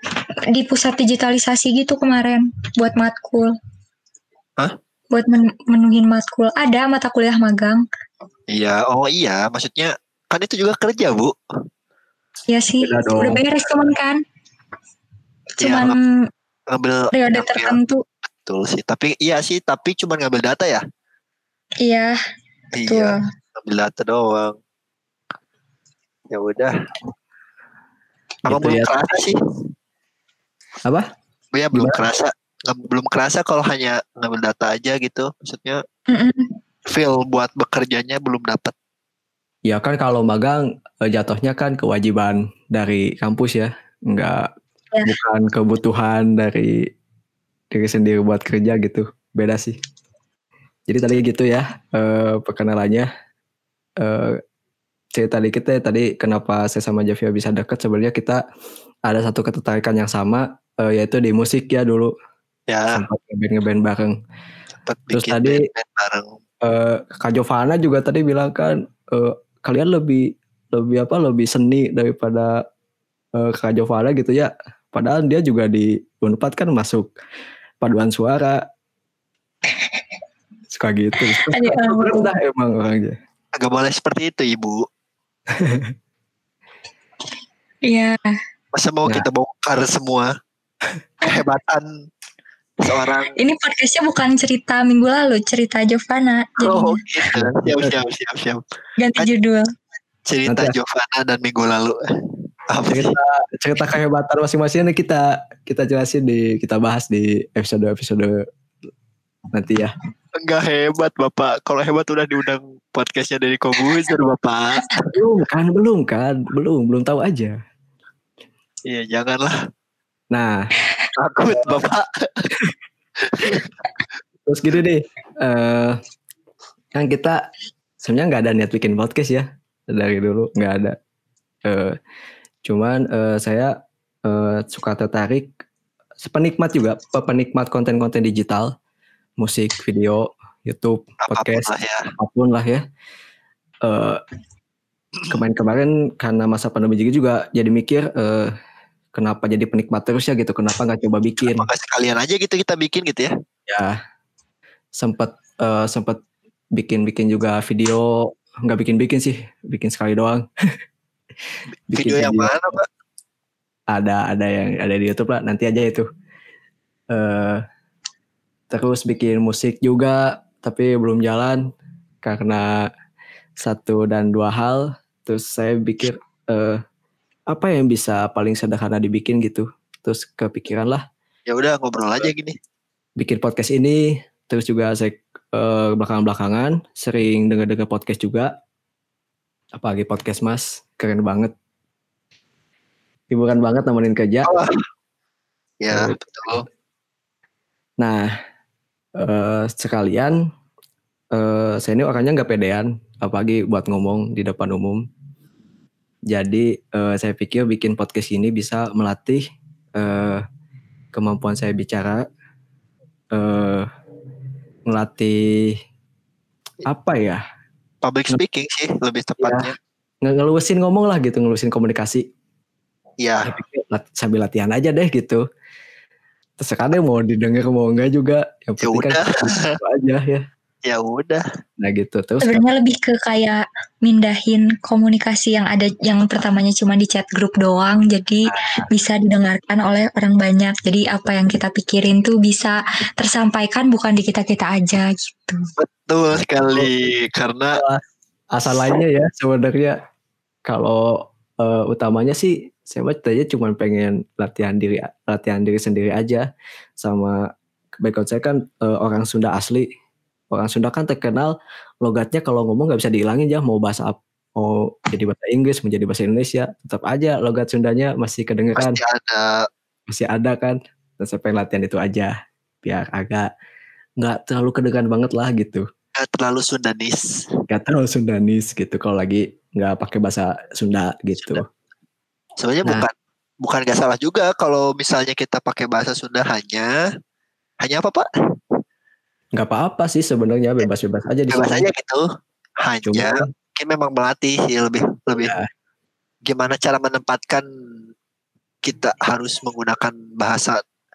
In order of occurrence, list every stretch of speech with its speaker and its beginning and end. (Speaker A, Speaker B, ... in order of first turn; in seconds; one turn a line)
Speaker A: 0.5-3.5
Speaker A: 5.1-7.8
Speaker B: 8.5-11.3
Speaker A: 12.5-14.2
Speaker C: 12.8-13.4
Speaker A: 15.6-16.1
Speaker B: 15.6-16.0
Speaker B: 16.7-17.8
Speaker A: 17.1-18.0
Speaker B: 18.4-20.8
Speaker A: 21.8-22.2
Speaker B: 22.8-24.6
Speaker A: 22.9-23.2
Speaker B: 26.3-26.7
Speaker C: 28.5-29.1
Speaker B: 28.5-29.4
Speaker B: 31.5-35.8
Speaker C: 31.7-32.0
Speaker A: 36.1-36.5
Speaker B: 36.9-38.7
Speaker C: 39.7-44.5
Speaker C: 45.0-46.9
Speaker C: 47.7-49.8
Speaker C: 50.9-53.1
Speaker C: 54.0-54.4
Speaker C: 55.1-58.4
Speaker C: 59.1-62.1
Speaker B: 62.7-62.9
Speaker C: 62.9-64.2
Speaker B: 64.9-66.3
Speaker C: 65.1-65.7
Speaker C: 66.6-72.5
Speaker C: 73.4-77.1
Speaker C: 77.8-78.6
Speaker C: 80.7-83.2
Speaker A: 81.5-82.3
Speaker B: 83.6-84.8
Speaker C: 85.5-85.9
Speaker A: 87.9-88.4
Speaker B: 88.8-90.3
Speaker B: 91.2-91.9
Speaker B: 92.8-93.3
Speaker A: 93.4-97.0
Speaker B: 96.6-98.6
Speaker C: 97.3-98.0
Speaker A: 99.0-99.7
Speaker B: 100.3-102.0
Speaker C: 100.5-100.8
Speaker B: 102.7-103.1
Speaker C: 102.9-108.5
Speaker C: 109.5-109.9
Speaker B: 110.4-115.1
Speaker C: 115.1-117.5
Speaker B: 118.8-119.6
Speaker C: 120.3-120.7
Speaker B: 121.2-122.4
Speaker B: 123.2-123.7
Speaker C: 124.5-126.0
Speaker C: 127.0-127.4
Speaker C: 128.0-131.0
Speaker C: 131.7-132.0
Speaker C: 132.7-133.7
Speaker C: 134.3-135.5
Speaker C: 136.2-138.7
Speaker C: 139.4-142.8
Speaker B: 141.2-142.1
Speaker C: 143.8-144.2
Speaker C: 145.3-148.5
Speaker C: 149.2-151.7
Speaker B: 151.4-153.3
Speaker C: 153.7-154.0
Speaker C: 155.0-156.2
Speaker C: 156.8-160.4
Speaker C: 161.9-162.8
Speaker B: 161.9-162.9
Speaker C: 163.9-166.1
Speaker C: 167.1-167.6
Speaker C: 168.7-171.6
Speaker C: 172.2-172.7
Speaker C: 173.6-176.8
Speaker C: 177.5-181.0
Speaker B: 181.5-182.6
Speaker C: 183.2-188.5
Speaker C: 189.8-191.5
Speaker C: 193.3-194.5
Speaker B: 194.5-194.7
Speaker B: 195.8-196.6
Speaker C: 195.9-196.2
Speaker C: 198.0-198.3
Speaker C: 199.2-200.4
Speaker C: 201.3-205.0
Speaker C: 206.3-209.4
Speaker C: 210.0-210.4
Speaker C: 211.1-212.3
Speaker C: 213.3-213.9
Speaker C: 214.9-215.8
Speaker C: 216.9-217.4
Speaker B: 218.0-219.8
Speaker C: 219.4-219.7
Speaker C: 220.2-222.3
Speaker B: 223.2-223.5
Speaker C: 223.4-225.4
Speaker C: 226.6-230.4
Speaker B: 228.8-229.7
Speaker B: 230.8-231.4
Speaker C: 231.8-232.6
Speaker A: 232.4-245.7
Speaker C: 238.4-238.9
Speaker B: 245.8-247.8
Speaker C: 247.7-248.0
Speaker C: 248.5-250.0
Speaker C: 250.7-256.5
Speaker C: 257.0-257.4
Speaker C: 258.0-259.9
Speaker C: 260.5-269.0
Speaker B: 268.8-269.7
Speaker C: 270.1-273.5
Speaker C: 274.2-275.9
Speaker B: 276.2-277.2
Speaker C: 277.7-281.6
Speaker B: 282.6-286.9
Speaker B: 287.8-288.3
Speaker C: 289.6-291.9
Speaker B: 291.5-292.2
Speaker B: 292.9-295.5
Speaker C: 293.1-293.5
Speaker C: 295.3-295.7
Speaker B: 296.5-297.6
Speaker B: 298.8-300.8